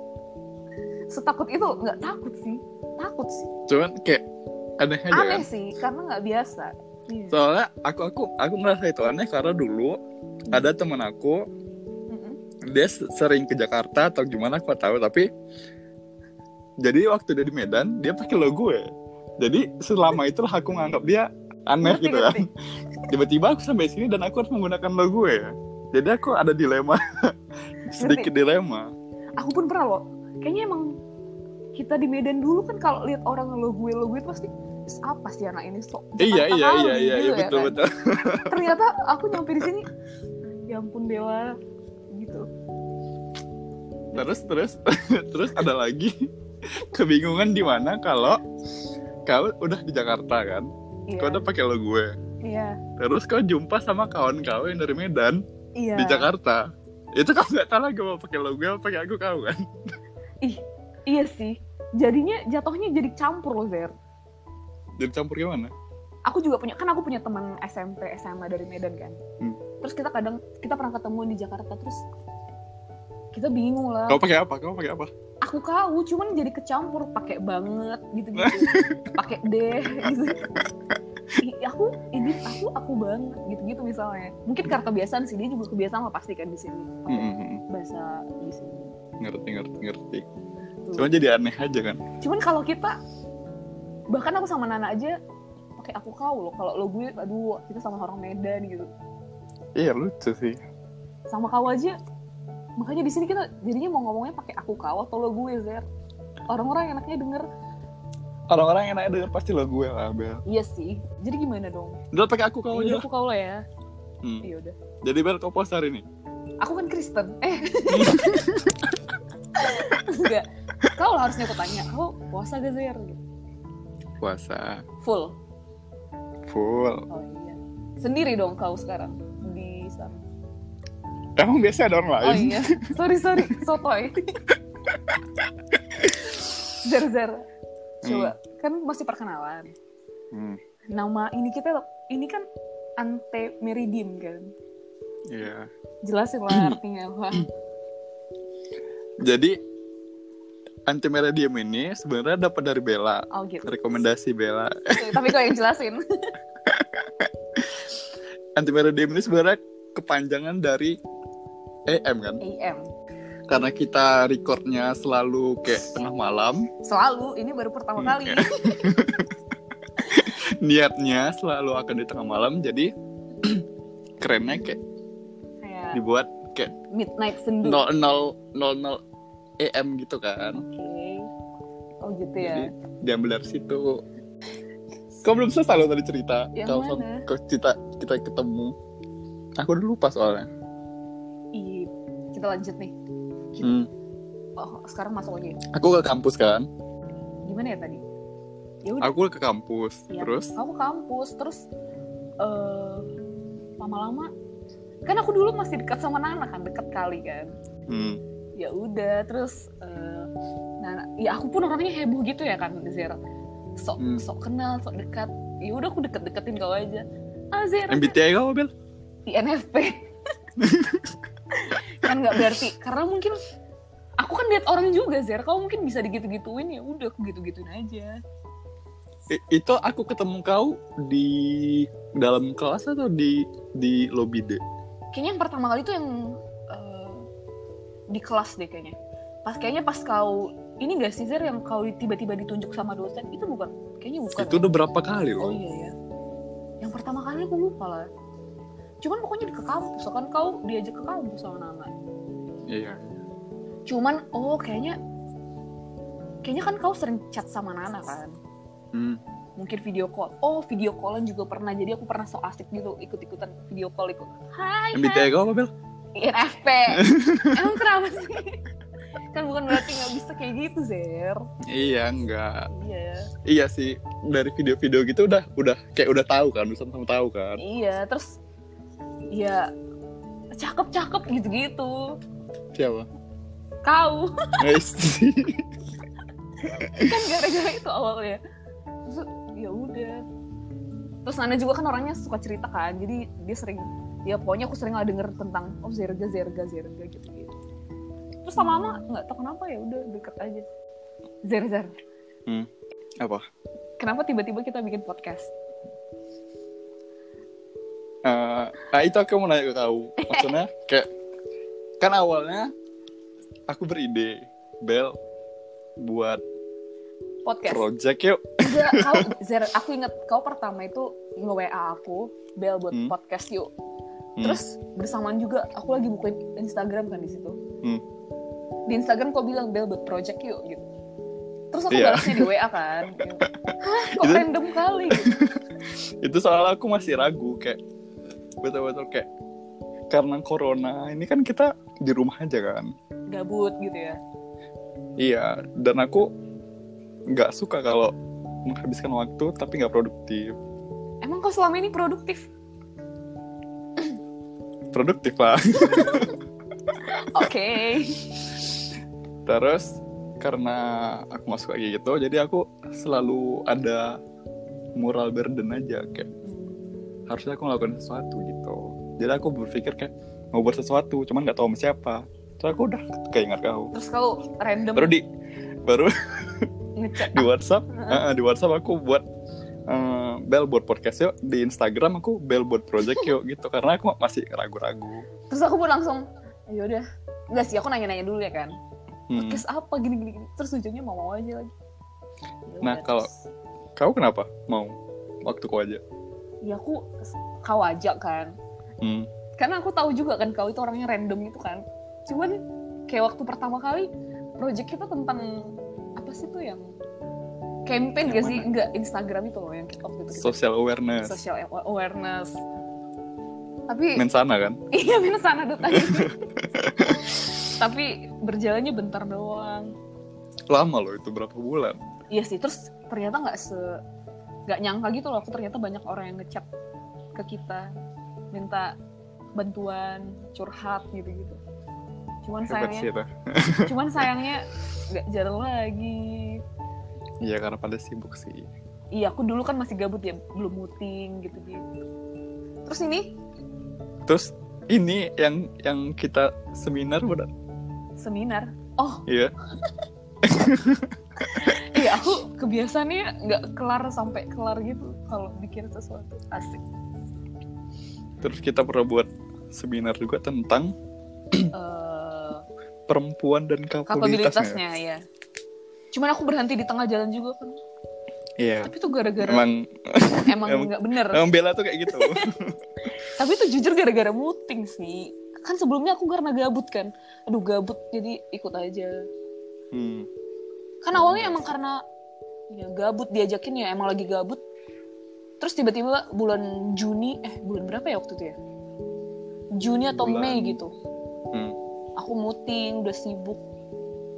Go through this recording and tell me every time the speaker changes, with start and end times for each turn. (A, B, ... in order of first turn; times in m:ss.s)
0:01.1-0:03.5 A
0:03.7-0:04.2 B
0:04.8-0:05.5 B
0:05.1-0:07.4 A
0:07.3-0:10.0 B
0:10.5-0:11.4 B
0:12.1-0:12.4 A
0:12.7-0:15.3 B
0:16.8-0:18.9 B
0:19.4-0:22.4 B
0:21.8-0:22.5 A
0:23.1-0:27.0 B
0:27.9-0:28.9 B
0:28.0-0:28.3 A
0:29.4-0:31.0 A
0:31.7-0:37.8 A
0:36.2-0:38.6 B
0:38.4-0:39.9 A
0:40.7-0:41.5 A
0:42.1-0:42.5 A
0:44.1-0:46.1 B
0:44.2-0:44.4 A
0:46.8-0:48.4 B
0:49.3-0:50.7 B
0:51.1-0:51.5 A
0:51.2-0:52.1 B
0:52.4-0:52.8 A
0:53.0-0:55.4 B
0:55.8-0:56.3 A
0:56.0-0:56.6 B
0:57.2-0:59.6 B
1:00.4-1:03.9 A
1:05.0-1:05.7 B
1:06.3-1:09.2 A
1:09.8-1:12.0 A
1:13.3-1:14.2 A
1:14.1-1:15.1 B
1:15.4-1:20.6 A
1:18.4-1:19.1 B
1:21.4-1:28.9 A
1:27.1-1:27.6 B
1:29.2-1:30.2 B
1:30.8-1:31.1 A
1:31.0-1:32.0 B
1:32.2-1:33.0 A
1:34.1-1:35.2 A
1:35.8-1:38.9 A
1:39.8-1:40.6 B
1:41.3-1:42.0 A
1:42.8-1:45.8 A
1:46.5-1:47.4 A
1:48.5-1:50.4 B
1:50.5-1:52.0 A
1:52.1-1:53.1 B
1:52.7-1:53.6 A
1:54.2-1:54.5 B
1:54.4-1:54.8 A
1:55.0-1:56.0 B
1:56.6-1:58.3 A
1:57.9-1:58.9 B
1:59.6-2:03.2 A
2:04.2-2:04.8 B
2:05.0-2:05.4 A
2:06.5-2:07.0 B
2:07.1-2:10.2 A
2:11.4-2:12.6 B
2:12.2-2:14.2 A
2:14.9-2:15.2 B
2:16.0-2:16.3 B
2:16.7-2:17.4 A
2:18.0-2:19.7 A
2:18.0-2:18.3 B
2:20.3-2:20.6 B
2:20.9-2:22.4 A
2:23.0-2:24.5 A
2:25.3-2:25.7 B
2:26.0-2:27.5 A
2:26.5-2:26.8 B
2:29.2-2:29.6 B
2:30.9-2:35.4 B
2:33.3-2:34.0 A
2:34.9-2:36.0 A
2:36.7-2:37.8 B
2:38.6-2:41.0 B
2:41.9-2:42.4 B
2:42.4-2:42.9 A
2:43.5-2:46.7 B
2:46.8-2:49.0 A
2:48.0-2:49.3 B
2:50.1-2:52.9 B
2:54.2-2:54.8 B
2:55.6-2:56.0 A
2:55.9-2:56.7 B
2:56.9-2:57.8 A
2:57.6-2:59.0 B
2:59.6-3:00.6 B
3:00.6-3:01.3 A
3:02.0-3:02.7 A
3:02.4-3:04.0 B
3:05.2-3:08.8 B
3:06.6-3:07.3 A
3:09.6-3:10.5 B
3:11.5-3:13.0 A
3:13.6-3:13.9 B
3:14.6-3:15.6 A
3:15.7-3:16.7 B
3:17.5-3:18.0 A
3:18.8-3:19.2 A
3:19.0-3:20.6 B
3:20.1-3:21.7 A
3:22.4-3:23.1 A
3:23.8-3:24.3 A
3:25.1-3:27.5 A
3:27.9-3:28.2 B
3:28.6-3:30.3 A
3:30.8-3:33.2 A
3:33.8-3:38.2 A
3:34.0-3:34.2 B
3:37.9-3:38.7 B
3:39.3-3:40.1 A
3:40.6-3:41.1 B
3:41.5-3:43.4 A
3:44.2-3:48.2 A
3:49.3-3:54.6 B
3:55.1-3:57.3 A
3:58.1-4:04.6 A
4:04.4-4:05.6 B
4:05.4-4:05.9 A
4:06.8-4:08.1 A
4:09.0-4:11.9 A
4:12.7-4:13.1 B
4:13.9-4:15.0 A
4:16.4-4:18.3 A
4:18.9-4:19.2 B
4:19.6-4:25.3 A
4:24.9-4:25.7 B
4:26.2-4:27.0 A
4:26.9-4:27.8 B
4:27.5-4:28.6 A
4:29.3-4:31.4 A
4:31.7-4:32.7 B
4:32.7-4:33.3 A
4:33.4-4:37.6 B
4:37.6-4:38.4 A
4:39.3-4:39.7 A
4:40.6-4:42.1 A
4:42.8-4:43.1 B
4:43.8-4:44.8 A
4:44.6-4:45.6 B
4:46.6-4:47.2 B
4:46.9-4:48.4 A
4:49.1-4:50.2 A
4:51.2-4:57.5 A
4:58.4-5:00.6 A
5:01.5-5:01.9 A
5:04.0-5:05.5 A
5:08.2-5:11.1 B
5:10.2-5:10.6 A
5:12.0-5:12.7 B
5:13.7-5:15.2 B
5:16.0-5:16.4 B
5:17.4-5:17.8 A
5:17.7-5:19.3 B
5:18.6-5:23.7 A
5:24.4-5:27.6 A
5:28.9-5:30.9 A
5:31.7-5:35.3 A
5:31.9-5:32.5 B
5:33.2-5:34.5 B
5:35.1-5:35.6 B
5:36.2-5:37.8 B
5:38.6-5:39.3 B
5:40.1-5:42.9 B
5:43.3-5:44.2 A
5:45.2-5:46.3 B
5:47.3-5:48.1 B
5:48.6-5:50.6 B
5:51.2-5:52.5 A
5:54.9-5:56.4 B
5:55.9-5:56.3 A
5:57.1-5:58.3 A
5:59.5-6:04.2 B
6:05.0-6:06.3 B
6:06.4-6:07.0 A
6:07.3-6:13.9 B
6:13.9-6:15.2 A
6:15.0-6:15.2 B
6:15.8-6:16.7 B
6:17.0-6:18.2 A
6:17.3-6:19.2 B
6:19.9-6:25.3 B
6:25.5-6:28.7 A
6:29.3-6:29.6 B
6:29.4-6:31.7 A
6:32.7-6:33.3 A
6:32.8-6:33.3 B
6:34.0-6:36.0 B
6:36.6-6:38.5 A
6:39.0-6:39.3 B
6:39.6-6:46.8 A
6:47.9-6:50.6 A
6:48.2-6:48.7 B
6:50.3-6:51.4 B
6:51.2-6:52.6 A
6:53.9-6:54.2 A
6:54.2-6:54.8 B
6:54.9-6:56.4 A
6:55.9-6:57.4 B
6:57.0-6:59.9 A
7:00.7-7:02.0 B
7:02.3-7:04.0 A
7:04.7-7:06.6 A
7:07.4-7:07.9 A
7:08.5-7:08.9 A
7:09.6-7:11.6 A
7:12.4-7:13.1 A
7:12.7-7:14.3 B
7:13.9-7:16.6 A
7:17.4-7:18.7 B
7:19.1-7:21.9 A
7:22.9-7:23.4 A
7:24.3-7:27.5 B
7:28.2-7:29.2 A
7:29.3-7:29.5 B
7:30.4-7:31.1 B
7:31.4-7:36.8 A
7:31.7-7:32.1 B
7:38.4-7:40.9 B
7:41.7-7:42.6 A
7:43.1-7:44.8 B
7:44.1-7:45.2 A
7:46.1-7:47.8 A
7:48.6-7:52.8 B
7:48.8-7:49.7 A
7:50.5-7:51.4 A
7:52.1-7:52.4 A
7:53.3-7:59.2 A
7:59.9-8:00.3 B
8:01.0-8:02.0 A
8:01.1-8:01.7 B
8:02.7-8:04.6 A
8:05.6-8:08.6 A
8:09.8-8:10.9 A
8:10.1-8:10.8 B
8:11.5-8:11.8 B
8:12.2-8:13.6 A